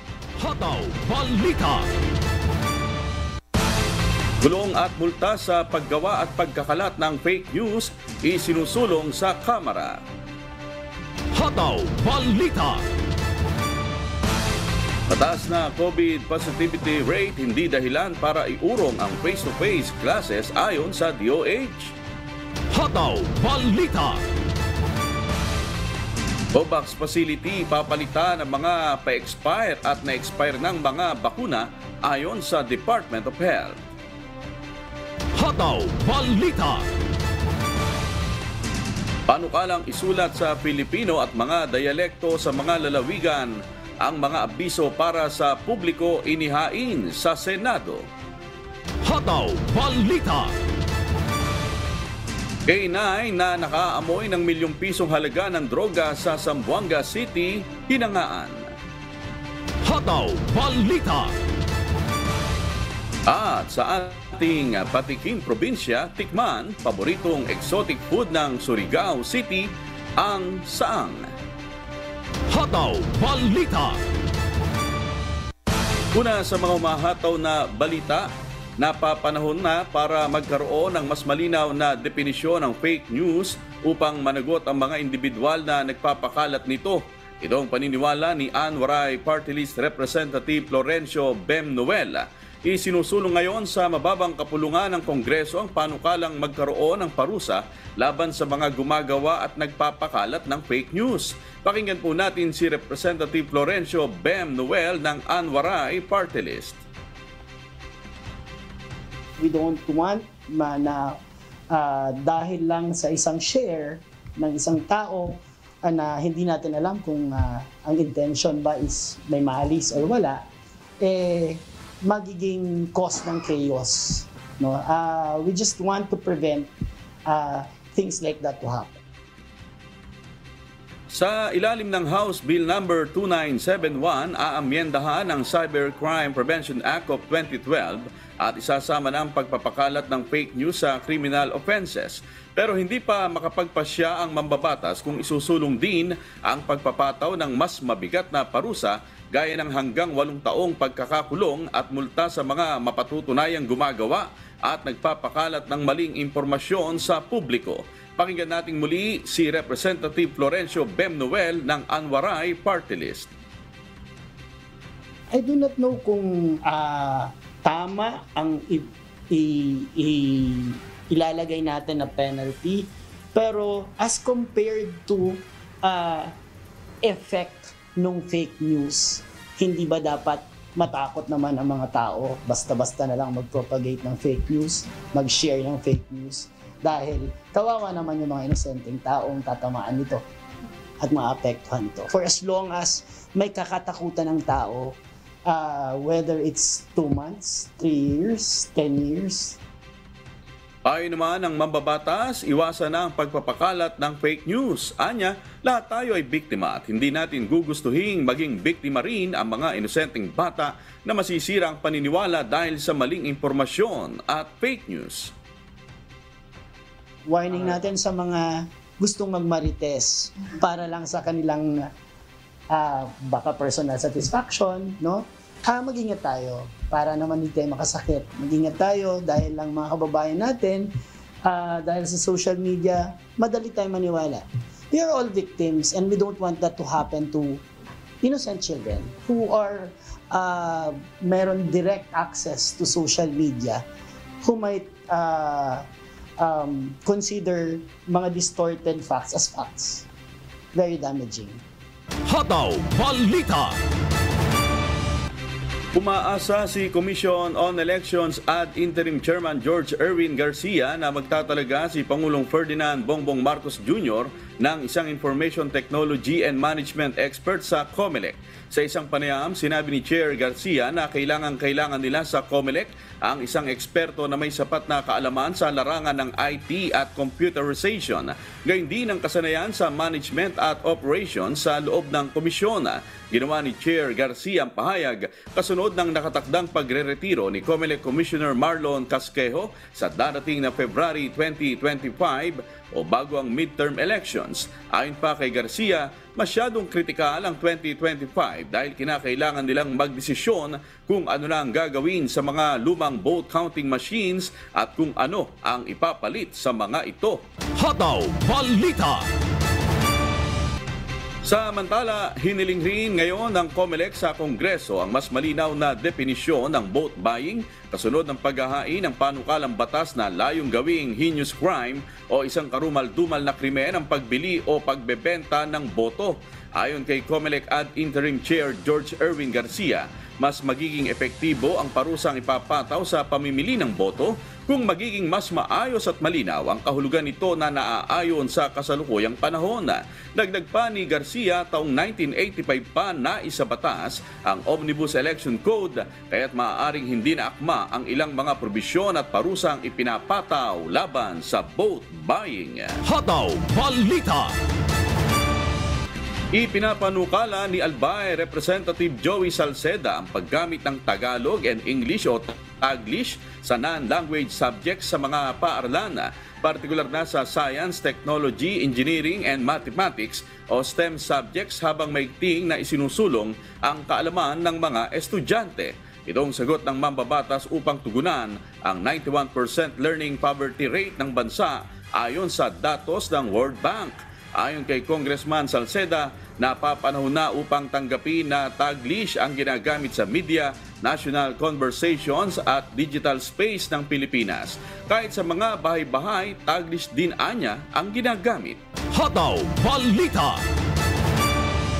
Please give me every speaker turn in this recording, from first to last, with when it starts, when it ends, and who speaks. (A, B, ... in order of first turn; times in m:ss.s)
0:00.4-0:01.9 A
0:04.4-0:10.0 B
0:11.3-0:12.9 A
0:15.1-0:21.9 B
0:22.7-0:24.2 A
0:26.5-0:33.8 B
0:35.4-0:36.9 A
0:39.3-0:48.0 B
0:49.0-0:50.6 A
0:52.7-0:58.7 B
0:59.8-1:01.4 A
1:03.3-1:09.7 B
1:10.2-1:11.3 B
1:12.5-1:14.0 A
1:16.1-1:18.3 B
1:18.8-1:46.8 B
1:49.4-1:51.2 C
1:51.7-2:00.4 C
2:01.0-2:06.7 C
2:07.2-2:09.0 C
2:11.1-2:43.3 B
2:45.3-2:56.3 C
2:57.0-3:10.2 C
3:11.0-3:19.6 C
3:20.8-3:35.3 B
3:37.3-3:41.9 C
3:42.7-3:50.9 C
3:51.4-3:57.6 C
3:58.2-4:03.8 C
4:04.4-4:05.8 C
4:06.4-4:10.0 C
4:10.7-4:11.6 C
4:12.3-4:13.8 A
4:15.9-5:07.4 B
5:07.8-5:09.3 A
5:11.4-5:53.0 B
5:53.0-5:54.6 A
5:56.5-6:38.8 B
6:39.1-6:40.6 A